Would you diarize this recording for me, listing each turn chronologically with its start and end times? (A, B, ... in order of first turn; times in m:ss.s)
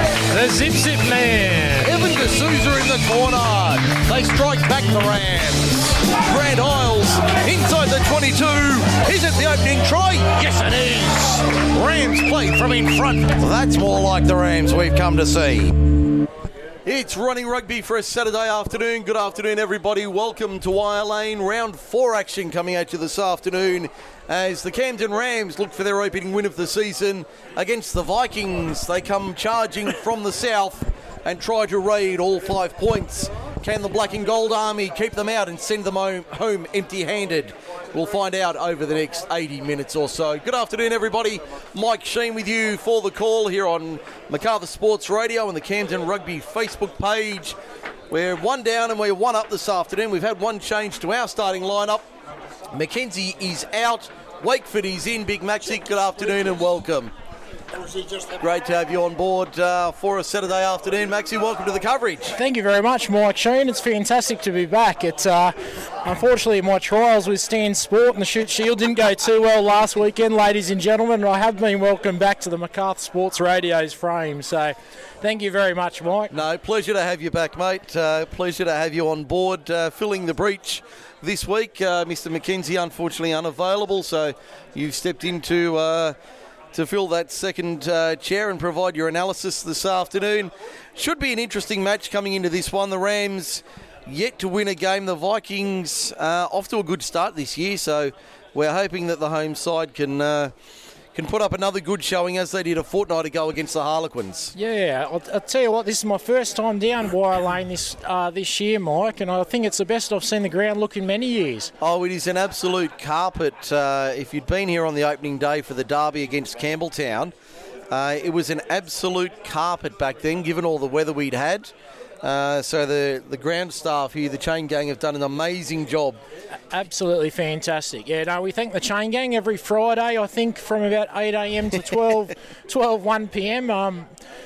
0:00.3-0:02.0 A
0:01.8-0:15.8 B
0:16.8-0:47.6 B
0:48.1-0:52.1 B
0:52.7-0:57.1 B
0:58.3-1:02.4 B
1:02.3-1:16.3 A
1:16.3-1:26.2 B
1:26.7-1:40.5 B
1:41.1-1:44.5 B
1:44.5-1:51.7 A
1:51.8-1:57.3 B
1:57.9-2:06.2 B
2:06.7-2:14.1 A